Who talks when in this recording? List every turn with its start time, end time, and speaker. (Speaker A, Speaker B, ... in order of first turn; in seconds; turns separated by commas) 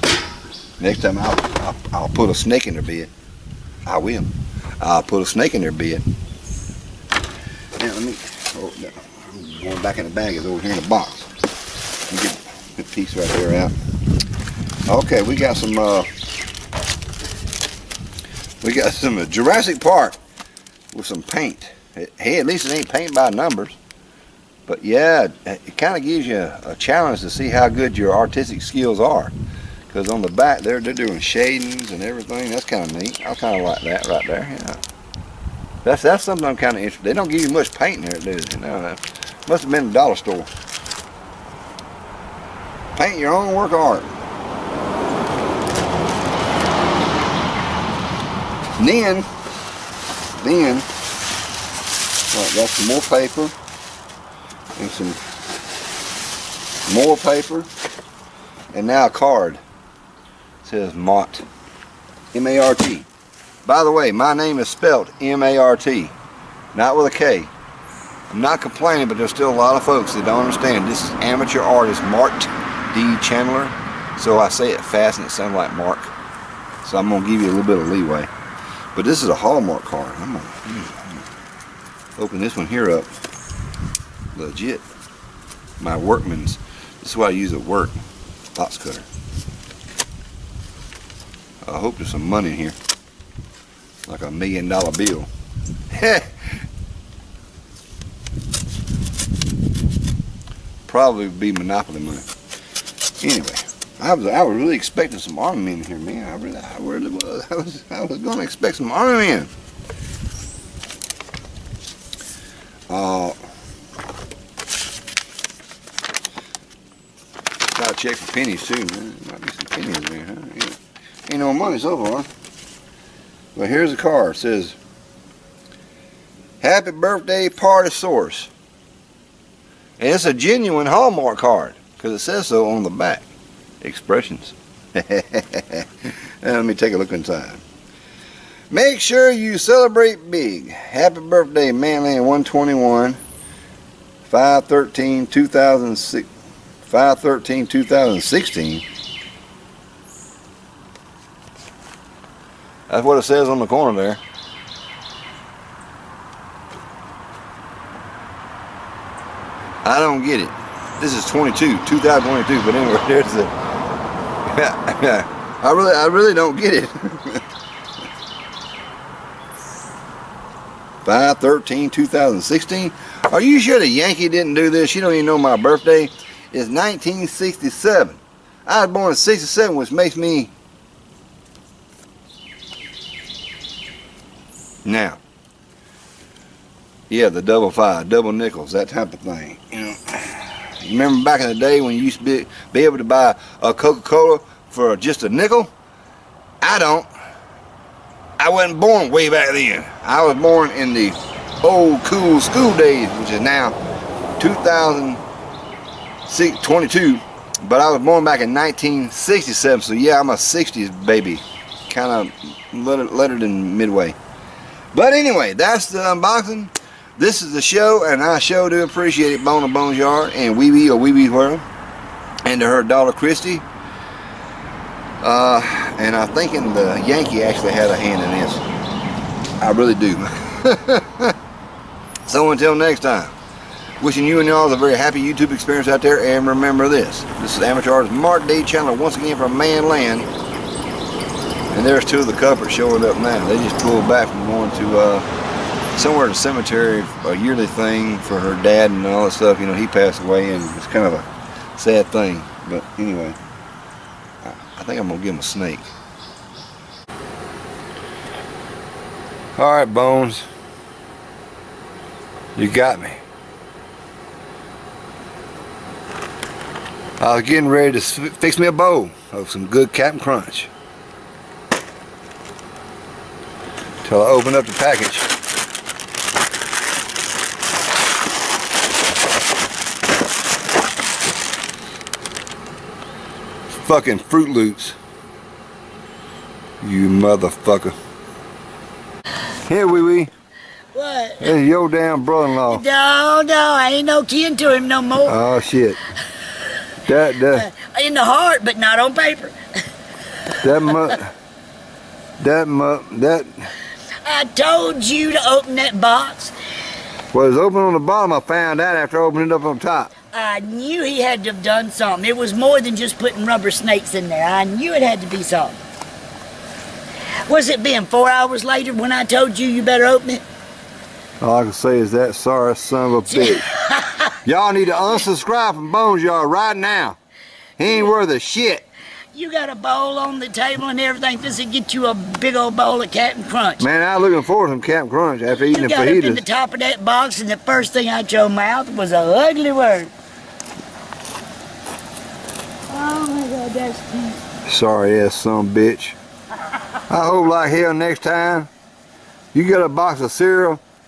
Speaker A: 0.8-3.1, Speaker A: 3.9-6.0, Speaker A: 7.8-11.3, Speaker A: 12.1-13.7, Speaker A: 14.9-16.1, Speaker A: 18.6-20.2, Speaker A: 20.9-23.8, Speaker A: 24.7-29.3, Speaker A: 29.9-34.8, Speaker A: 35.8-40.5, Speaker A: 43.0-44.1, Speaker A: 48.8-49.3, Speaker A: 50.4-50.9, Speaker A: 52.3-53.5, Speaker A: 54.8-55.2, Speaker A: 56.9-57.7, Speaker A: 58.7-59.6, Speaker A: 60.6-61.4, Speaker A: 62.3-63.1, Speaker A: 63.6-66.1, Speaker A: 66.7-67.5, Speaker A: 68.3-76.1, Speaker A: 76.8-78.3, Speaker A: 78.9-81.1, Speaker A: 82.2-83.1, Speaker A: 84.3-84.8, Speaker A: 85.8-88.0, Speaker A: 88.5-89.0, Speaker A: 91.6-92.8, Speaker A: 94.0-95.3, Speaker A: 95.9-96.4, Speaker A: 100.9-102.3, Speaker A: 103.2-109.5, Speaker A: 112.9-113.4, Speaker A: 117.7-122.3, Speaker A: 123.5-124.8, Speaker A: 126.6-128.5, Speaker A: 130.0-133.3, Speaker A: 133.8-137.6, Speaker A: 138.7-143.2, Speaker A: 144.2-146.3, Speaker A: 146.8-148.8, Speaker A: 152.9-154.2, Speaker A: 159.8-163.5, Speaker A: 164.4-167.4, Speaker A: 171.0-180.5, Speaker A: 184.8-185.2, Speaker A: 187.1-195.7, Speaker A: 196.6-197.1, Speaker A: 198.4-203.8, Speaker A: 204.4-205.2, Speaker A: 206.3-214.2, Speaker A: 214.9-221.6, Speaker A: 222.4-223.6, Speaker A: 225.2-228.6, Speaker A: 229.6-231.3, Speaker A: 232.2-233.3, Speaker A: 234.0-240.3, Speaker A: 241.7-245.2, Speaker A: 245.9-251.2, Speaker A: 251.8-253.4, Speaker A: 254.4-255.9, Speaker A: 259.6-260.4, Speaker A: 262.6-263.2, Speaker A: 267.2-270.7, Speaker A: 274.0-275.3, Speaker A: 283.7-284.9, Speaker A: 286.8-287.9, Speaker A: 289.6-290.3, Speaker B: 290.9-291.5, Speaker A: 291.4-292.8, Speaker B: 292.6-295.4, Speaker A: 295.2-296.0, Speaker A: 297.0-297.7, Speaker B: 297.5-299.5, Speaker A: 300.6-301.3, Speaker A: 302.4-303.7, Speaker B: 304.2-306.5, Speaker A: 307.3-310.1, Speaker B: 310.3-315.8, Speaker B: 317.5-320.4, Speaker A: 321.4-323.6, Speaker B: 323.3-324.3, Speaker A: 324.4-327.2, Speaker A: 327.8-328.9, Speaker B: 329.3-333.8, Speaker A: 333.8-336.4, Speaker B: 335.5-340.1, Speaker B: 342.9-344.4, Speaker A: 344.6-346.2, Speaker A: 347.1-348.7, Speaker A: 349.5-350.8